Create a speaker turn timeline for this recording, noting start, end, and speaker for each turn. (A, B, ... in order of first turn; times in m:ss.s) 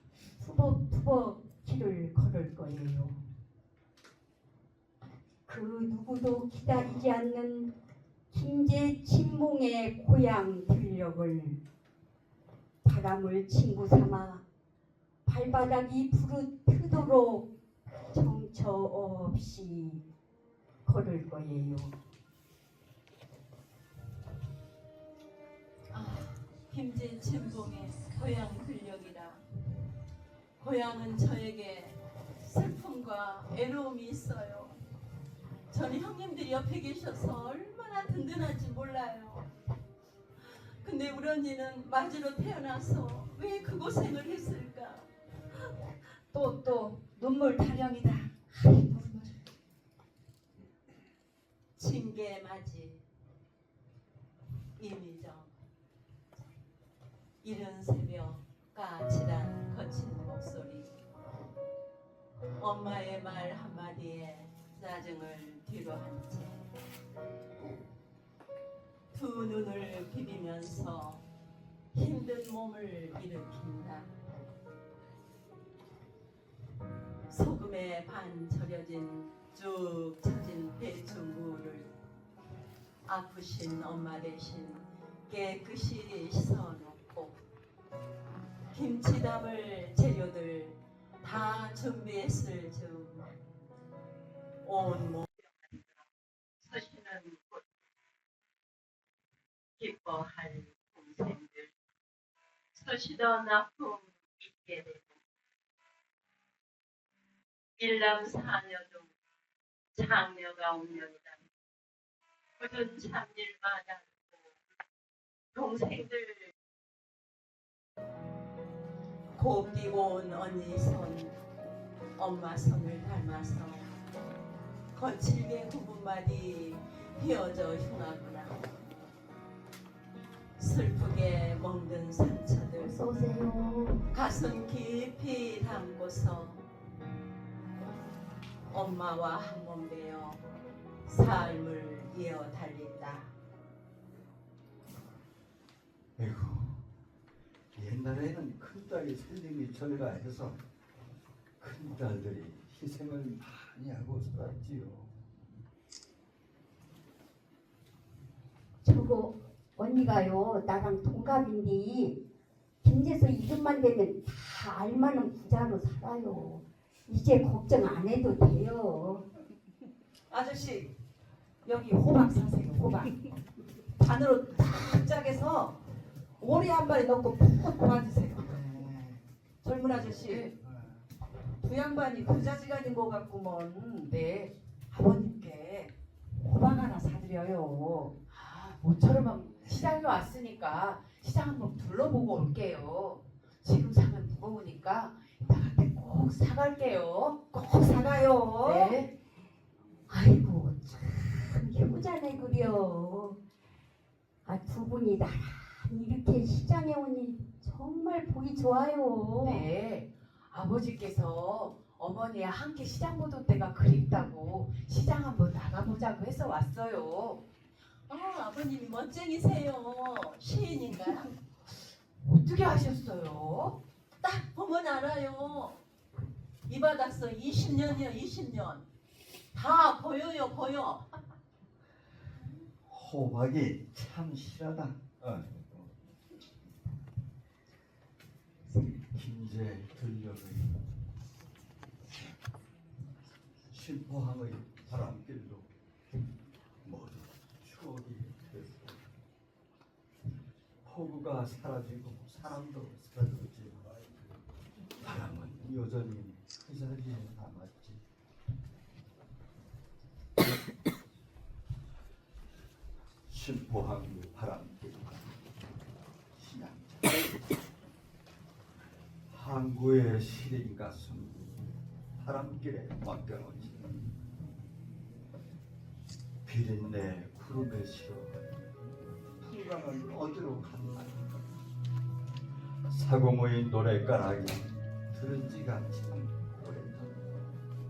0:00.4-0:03.2 A
0:05.5-0:07.7 A
0:08.3-0:11.6 A
0:12.8-0:14.4 A
0:15.3-0:17.5 A
0:18.1-0:20.0 A
0:20.8-0:22.0 A
0:25.9-0:29.4 B
0:30.6-0:34.8 B
0:35.7-0:39.5 B
0:40.8-0:45.1 B
0:46.3-0:48.3 C
0:51.8-0:53.0 B
0:54.8-0:55.5 B
0:57.4-1:00.9 B
1:02.6-1:06.6 B
1:09.1-1:11.2 B
1:11.9-1:14.1 B
1:17.3-1:21.9 B
1:23.1-1:27.4 B
1:28.7-1:33.3 B
1:34.6-1:35.8 B
1:36.6-1:37.6 B
1:39.8-1:41.7 B
1:42.8-1:45.1 B
1:47.8-1:49.1 B
1:50.0-1:51.4 B
1:52.6-1:54.0 B
1:55.6-1:56.5 B
1:59.4-2:01.4 B
2:02.2-2:04.0 B
2:04.9-2:08.7 B
2:10.6-2:13.0 B
2:12.8-2:14.1 A
2:14.1-2:16.6 B
2:18.7-2:20.4 B
2:21.1-2:23.3 B
2:26.2-2:26.9 D
2:27.7-2:30.6 D
2:31.6-2:35.2 D
2:38.8-2:42.2 A
2:42.8-2:49.3 A
2:50.3-2:50.9 C
2:51.6-2:53.1 C
2:54.0-2:55.8 C
2:56.4-3:00.6 C
3:01.6-3:04.1 C
3:04.1-3:04.5 E
3:04.9-3:08.2 C
3:08.3-3:17.5 E
3:17.5-3:18.9 C
3:18.6-3:19.1 E
3:20.1-3:23.4 A
3:24.4-3:29.7 A
3:29.4-3:37.4 E
3:38.1-3:41.3 B
3:42.2-3:43.8 E
3:44.2-3:45.8 B
3:46.7-3:48.8 B
3:49.5-3:51.1 B
3:52.9-3:55.9 D
3:59.1-4:00.8 D
4:03.7-4:05.7 D
4:06.8-4:09.1 D
4:10.8-4:14.3 D
4:15.0-4:18.0 D
4:23.3-4:25.3 D
4:26.3-4:27.3 D
4:29.3-4:34.1 D
4:36.4-4:38.5 D
4:39.4-4:41.4 D
4:42.9-4:47.3 D